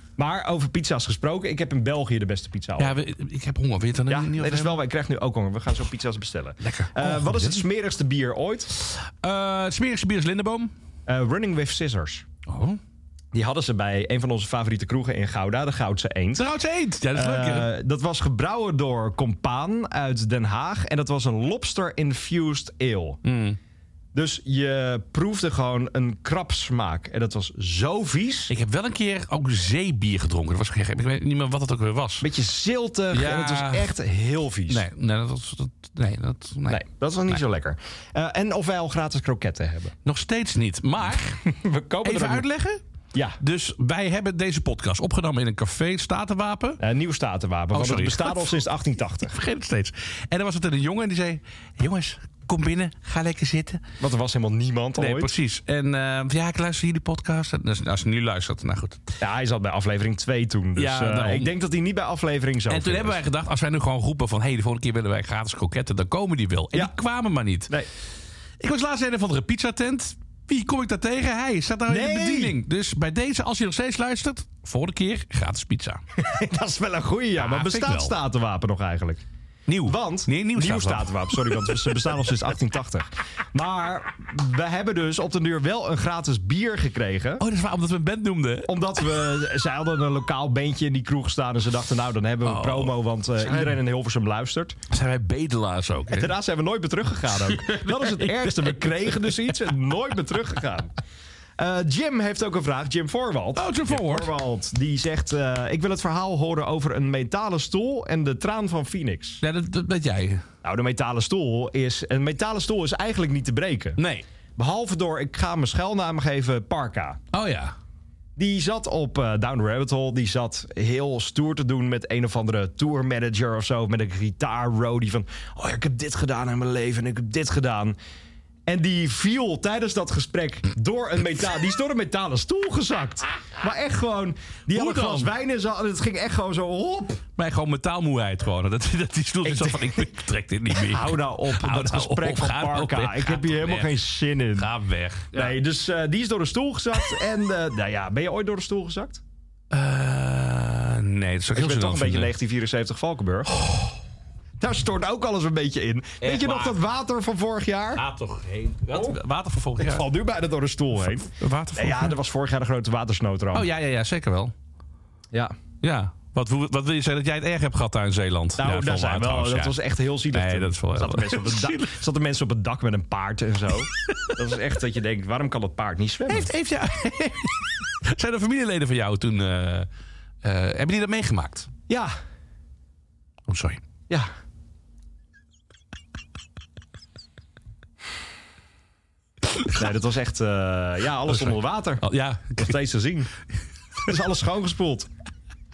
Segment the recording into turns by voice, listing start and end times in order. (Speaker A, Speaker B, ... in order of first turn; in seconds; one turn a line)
Speaker A: 0.2-3.0
Speaker B: 2.8-4.8
Speaker A: 4.1-8.7
Speaker B: 6.6-7.6
Speaker B: 8.8-10.7
Speaker A: 11.1-12.2
Speaker B: 12.5-12.8
Speaker A: 13.3-16.5
Speaker B: 16.4-17.7
Speaker A: 17.1-23.2
Speaker B: 23.2-23.6
Speaker A: 24.1-28.5
Speaker B: 28.5-32.3
Speaker A: 32.2-34.9
Speaker B: 33.1-33.9
Speaker B: 34.7-37.4
Speaker A: 36.7-39.9
Speaker B: 40.0-41.4
Speaker A: 41.4-42.5
Speaker B: 42.0-42.8
Speaker A: 43.1-43.4
Speaker B: 43.4-46.8
Speaker A: 46.8-49.4
Speaker B: 47.7-48.6
Speaker B: 49.2-53.8
Speaker A: 54.0-55.3
Speaker B: 55.0-59.0
Speaker A: 59.2-63.2
Speaker B: 60.8-61.5
Speaker B: 62.7-67.7
Speaker B: 68.6-76.0
Speaker A: 71.9-72.6
Speaker A: 76.2-79.2
Speaker B: 77.4-78.1
Speaker B: 79.7-82.2
Speaker A: 79.8-87.4
Speaker B: 87.4-88.7
Speaker A: 88.7-94.8
Speaker B: 92.4-93.8
Speaker B: 94.9-96.3
Speaker A: 96.1-100.9
Speaker B: 97.3-99.4
Speaker A: 101.6-109.4
Speaker B: 103.5-104.3
Speaker B: 109.4-110.4
Speaker A: 110.6-114.0
Speaker B: 114.0-114.2
Speaker A: 114.6-117.2
Speaker B: 117.3-117.7
Speaker A: 118.4-128.0
Speaker A: 128.7-137.2
Speaker B: 134.7-135.3
Speaker B: 137.4-144.0
Speaker A: 139.4-140.1
Speaker A: 140.7-144.7
Speaker B: 144.6-145.5
Speaker A: 145.3-149.2
Speaker B: 149.7-152.3
Speaker A: 151.5-153.6
Speaker A: 154.6-158.0
Speaker B: 156.2-156.8
Speaker B: 157.9-160.1
Speaker A: 158.9-159.2
Speaker A: 159.8-163.7
Speaker B: 161.2-162.2
Speaker B: 163.5-164.5
Speaker B: 165.8-169.8
Speaker A: 168.6-176.5
Speaker B: 170.3-172.0
Speaker B: 176.3-179.9
Speaker B: 180.4-181.7
Speaker A: 181.9-182.1
Speaker B: 183.5-183.8
Speaker A: 189.7-192.0
Speaker B: 191.3-192.8
Speaker A: 192.6-193.3
Speaker A: 194.1-195.1